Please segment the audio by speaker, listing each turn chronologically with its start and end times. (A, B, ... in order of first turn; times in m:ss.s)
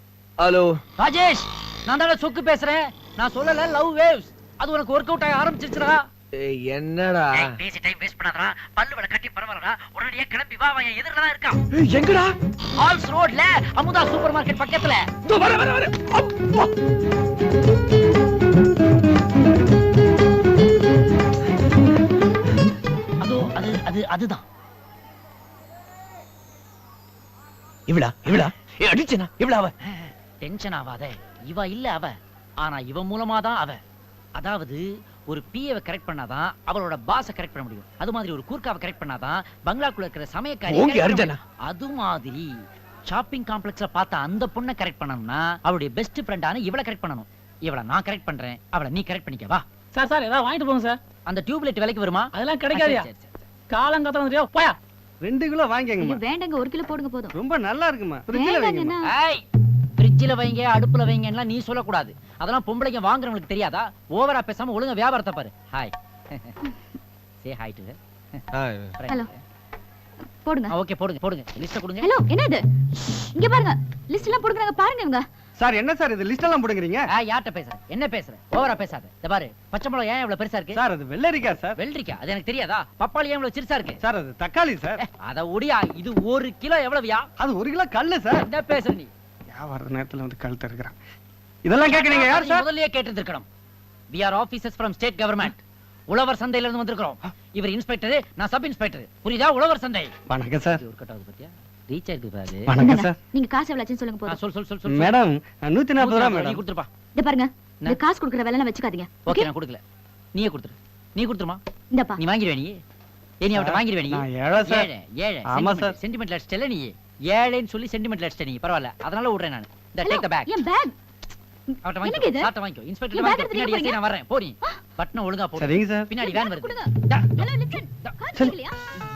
0:00.4-0:00.8 A
0:01.0-0:06.0 B
0:06.4-0:07.6 A
0:07.4-0:11.6 B
0:11.7-0:12.3 A
0:12.8-0:15.1 B
0:15.2-0:16.7 A
0:23.2-0:24.4 B
0:27.9-0:29.8 A
0:29.8-0:33.8 B
0:34.4-0:49.6 B
0:40.7-0:41.4 A
0:50.0-0:51.0 C
0:50.0-0:50.9 D
0:51.3-0:53.4 B
0:52.3-0:53.0 C
0:53.7-0:54.8 C
0:54.3-0:54.7 D
0:55.2-0:56.2 E
0:56.0-0:57.4 D
0:57.3-0:58.9 E
0:58.3-0:59.1 D
0:59.0-0:59.4 B
1:00.0-1:06.6 B
1:07.4-1:08.4 B
1:08.6-1:08.9 A
1:09.0-1:09.4 B
1:10.4-1:10.8 D
1:10.7-1:12.1 B
1:12.0-1:12.6 D
1:13.2-1:15.3 D
1:15.6-1:17.0 E
1:17.1-1:20.8 B
1:20.7-1:21.8 E
1:21.8-1:24.0 B
1:24.0-1:25.0 E
1:25.0-1:27.3 B
1:27.4-1:28.4 E
1:28.3-1:29.1 B
1:29.5-1:31.0 E
1:31.6-1:32.6 E
1:31.8-1:33.5 B
1:34.1-1:40.1 B
1:40.3-1:40.8 E
1:40.7-1:42.8 B
1:42.7-1:43.2 E
1:42.8-1:44.4 D
1:44.3-1:45.2 B
1:44.9-1:46.6 E
1:46.0-1:46.9 B
1:47.2-1:49.5 D
1:49.2-1:49.8 B
1:50.4-1:51.6 B
1:51.9-1:52.2 D
1:52.2-1:52.8 B
1:53.4-2:00.5 B
1:53.5-1:54.9 E
1:55.5-1:56.0 E
2:00.0-2:01.0 D
2:01.7-2:02.5 D
2:01.8-2:07.5 B
2:03.1-2:04.0 D
2:05.6-2:06.1 E
2:06.2-2:08.8 D